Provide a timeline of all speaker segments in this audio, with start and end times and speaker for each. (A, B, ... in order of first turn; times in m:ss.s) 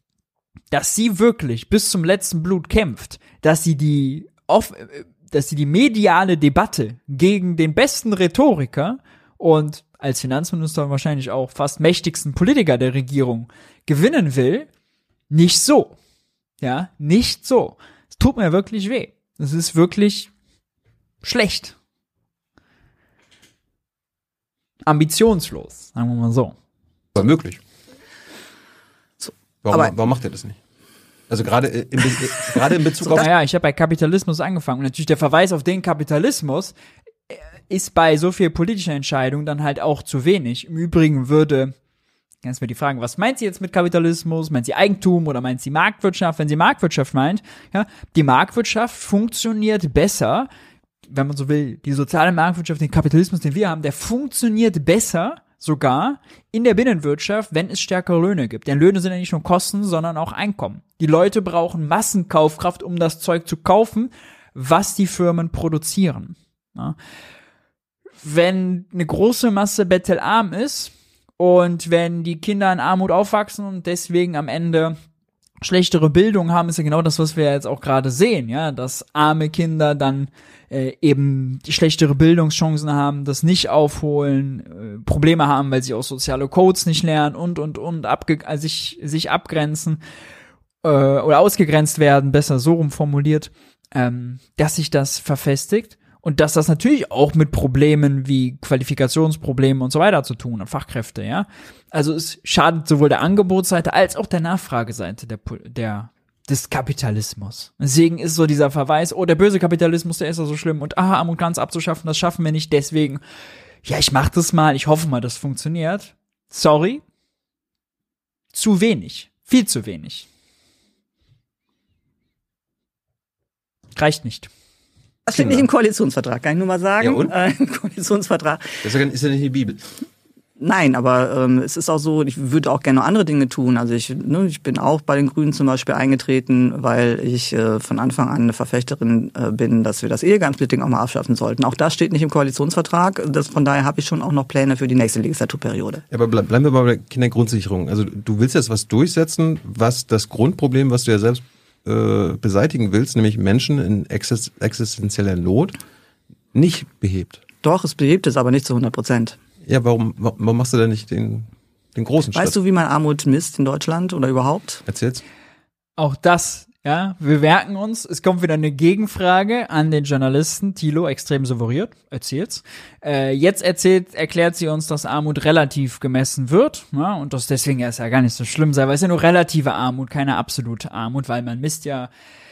0:00.7-0:14.7 A
0:15.3-0:16.0 A
0:16.6-0:20.3 A
0:21.2-0:21.8 A
0:24.9-0:26.6 A
0:27.2-0:27.6 B
0:29.2-0:29.9 C
0:29.6-0:30.6 B
0:31.3-0:33.3 B
0:32.5-0:33.3 C
0:33.1-0:36.8 A
0:37.3-0:41.7 A
0:42.4-0:50.5 A
0:51.1-1:07.0 A
1:08.2-1:15.0 A
1:15.6-1:30.0 A
1:30.8-1:53.2 A
1:53.8-1:57.0 A
1:58.5-2:00.3 A
2:04.0-2:04.5 A
2:05.3-2:08.9 C
2:05.3-2:05.7 B
2:07.0-2:07.3 B
2:08.8-2:09.8 B
2:10.6-2:26.0 C
2:26.1-2:35.8 B
2:36.5-2:37.4 B
2:37.6-2:39.4 C
2:39.6-2:42.6 B
2:42.3-2:44.8 C
2:44.9-2:45.2 B
2:46.0-3:02.1 A